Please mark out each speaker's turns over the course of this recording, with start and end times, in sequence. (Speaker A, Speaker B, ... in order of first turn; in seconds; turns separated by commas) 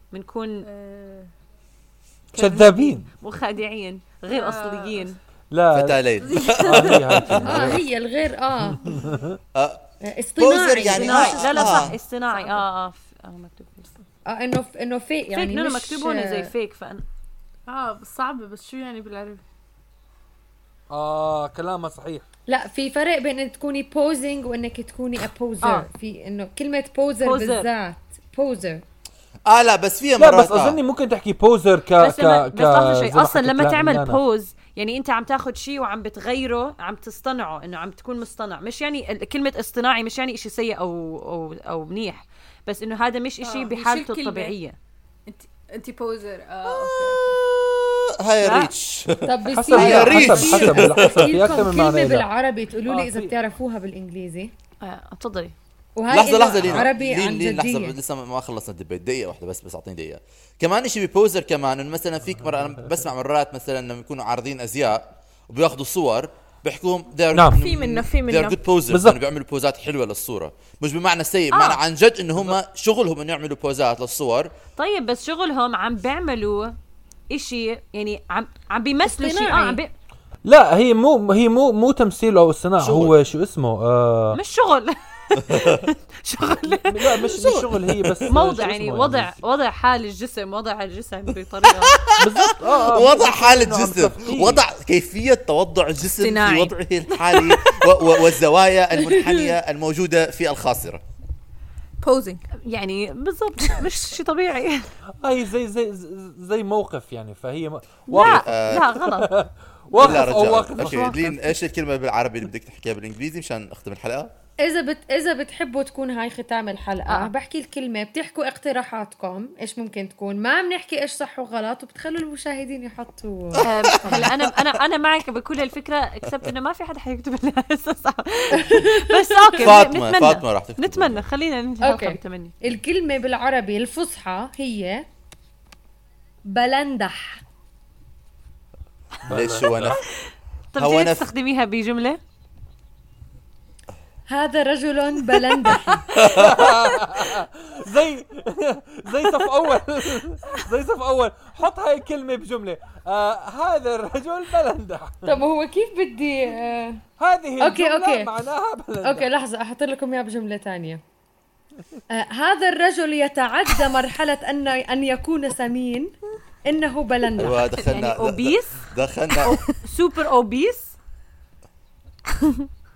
Speaker A: 0.1-0.7, Speaker B: 0.6-1.3, Speaker A: 2.3-5.2, Speaker C: 2.3-3.1, Speaker B: 4.3-5.1, Speaker C: 5.5-7.9, Speaker D: 5.7-7.8, Speaker B: 6.2-7.0, Speaker E: 7.4-9.1, Speaker C: 8.9-9.4, Speaker D: 9.5-9.8, Speaker E: 10.0-11.9, Speaker D: 10.4-11.9, Speaker A: 10.9-13.9, Speaker B: 12.3-12.6, Speaker E: 14.2-16.5, Speaker A: 15.3-17.0, Speaker B: 17.7-19.4, Speaker C: 20.9-22.2, Speaker E: 22.5-28.8, Speaker A: 27.2-27.7, Speaker D: 29.5-30.8, Speaker C: 30.2-34.2, Speaker A: 32.0-44.8, Speaker B: 43.4-44.5, Speaker B: 45.3-47.4, Speaker D: 47.5-51.5, Speaker A: 48.4-48.7, Speaker E: 49.2-54.5, Speaker C: 49.5-52.3, Speaker C: 52.9-53.3, Speaker A: 54.8-55.5, Speaker E: 56.0-58.0, Speaker D: 56.1-74.5, Speaker C: 56.6-56.9, Speaker C: 62.5-62.9, Speaker C: 67.3-67.6, Speaker B: 67.5-68.6, Speaker C: 68.9-69.2, Speaker A: 71.5-71.8, Speaker A: 74.8-76.7, Speaker A: 77.3-79.9, Speaker E: 79.0-79.8, Speaker C: 80.4-84.4, Speaker D: 82.8-83.1, Speaker A: 84.3-87.3, Speaker D: 85.3-85.9, Speaker C: 86.8-89.3, Speaker D: 87.3-88.3, Speaker A: 88.3-92.0, Speaker D: 91.6-101.0, Speaker C: 92.2-94.6, Speaker B: 96.2-96.8, Speaker A: 97.3-97.8, Speaker E: 99.1-99.5, Speaker B: 102.0-102.5, Speaker A: 102.6-104.9, Speaker C: 105.2-111.4, Speaker A: 108.1-109.3, Speaker D: 108.2-108.8, Speaker D: 109.9-114.3, Speaker A: 110.8-111.1, Speaker E: 114.6-124.3, Speaker A: 117.1-117.3, Speaker D: 123.5-124.6, Speaker A: 123.6-132.5, Speaker E: 128.5-129.7, Speaker D: 129.6-131.2, Speaker E: 131.8-135.1, Speaker E: 136.5-137.4, Speaker C: 139.2-139.9, Speaker D: 139.3-140.0, Speaker A: 140.7-142.2, Speaker D: 140.8-141.2, Speaker E: 144.3-146.2, Speaker D: 146.1-146.8, Speaker C: 146.1-155.3, Speaker E: 155.2-157.0, Speaker C: 157.2-159.3, Speaker E: 157.6-158.3, Speaker E: 159.0-161.0, Speaker E: 162.1-166.1, Speaker E: 166.6-167.7, Speaker D: 167.4-169.6, Speaker A: 167.8-168.9, Speaker A: 169.8-170.9